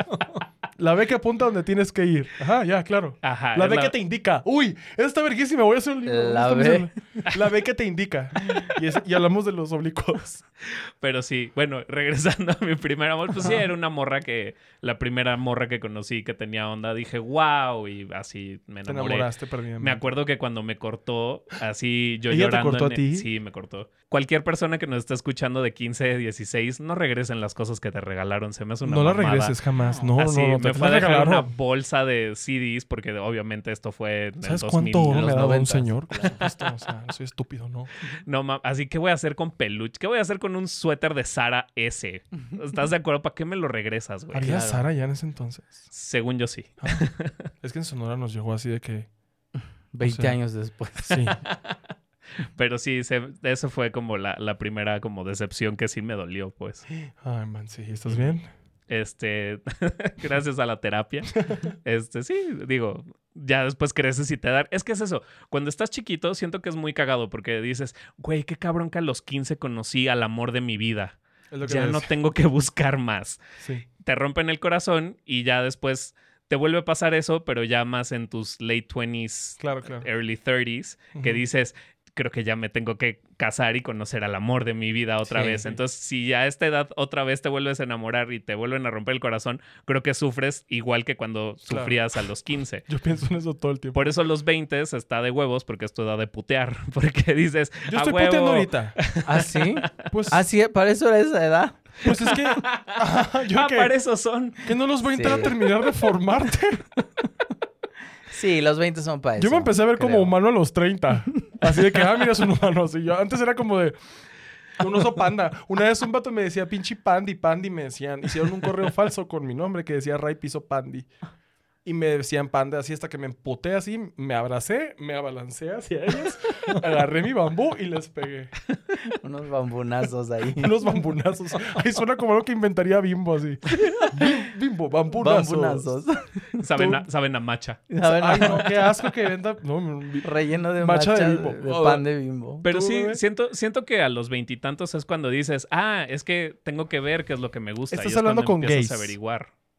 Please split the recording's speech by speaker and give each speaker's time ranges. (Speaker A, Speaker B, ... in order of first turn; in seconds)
Speaker A: 0.8-10.4, 18.9-20.1, 22.3-23.3, 28.9-31.5, 34.4-37.9, 44.3-45.9, 47.6-49.1, 50.0-50.4, 51.0-51.4, 56.9-58.5, 71.5-72.1, 79.6-80.1, 81.2-81.4, 91.7-92.0, 92.9-94.1, 97.9-99.0, 100.1-100.4, 102.0-103.9, 104.6-106.9, 109.4-114.0, 114.8-121.1, 121.8-128.5, 130.6-135.9, 138.0-142.0, 142.7-143.2, 147.9-149.2
Speaker B: 3.2-3.9, 10.7-19.3, 19.8-29.6, 30.2-35.4, 38.2-44.6, 45.9-47.4, 51.4-51.8, 52.5-56.9, 58.9-73.4, 74.0-92.8, 93.9-99.9, 102.6-104.7, 136.6-137.8, 142.6-149.5
Speaker C: 6.1-6.9, 29.8-30.1, 35.1-36.4, 44.4-44.8, 49.9-51.4, 85.3-85.7, 99.3-102.0, 105.1-105.5, 108.3-110.3, 129.1-130.7, 133.7-134.3, 135.2-136.9, 137.9-138.7, 140.2-142.7